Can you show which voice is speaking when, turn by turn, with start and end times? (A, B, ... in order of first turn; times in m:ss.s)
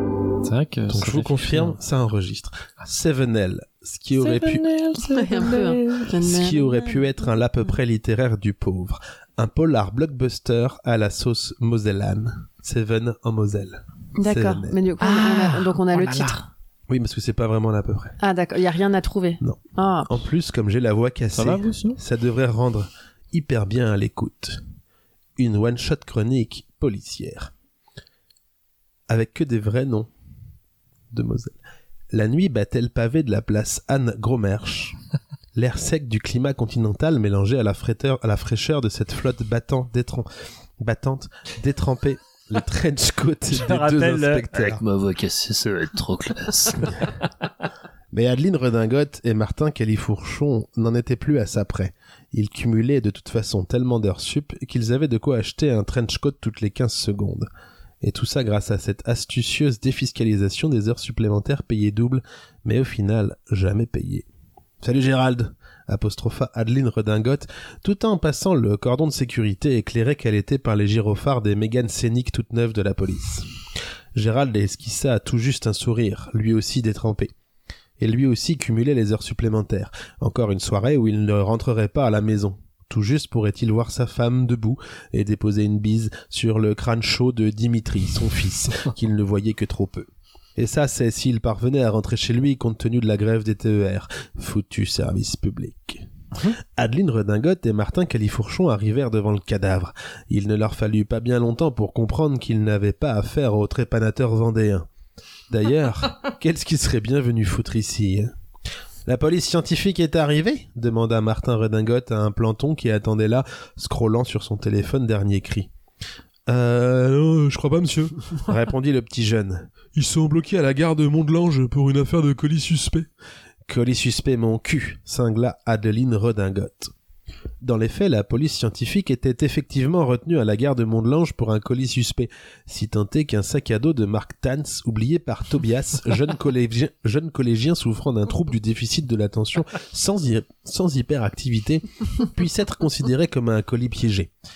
0:00.4-0:01.8 A
0:00.9-0:04.6 B
0:04.2-0:06.1 A
0:05.0-0:06.8 C
0:06.2-0:14.8 B
0:14.2-0:16.5 C
0:15.0-0:16.4 A
0:16.9-0:18.2 B
0:18.2-0:20.2 C
0:19.4-0:24.6 B
0:21.3-0:22.0 A
0:25.4-0:27.5 B
0:29.1-0:30.1 B
0:31.1-0:31.6 B
0:32.1-0:35.0 B
0:35.6-0:40.3 B
0:40.8-0:44.8 B
0:43.5-0:47.1 A
0:48.1-0:57.5 B
0:58.0-1:04.3 B
1:04.8-1:13.5 B
1:14.2-1:17.3 B
1:18.0-1:36.1 B
1:36.8-1:44.9 B
1:45.5-1:48.3 B
1:49.1-1:55.7 B
1:56.5-2:03.1 B
2:03.7-2:06.9 B
2:07.6-2:24.3 B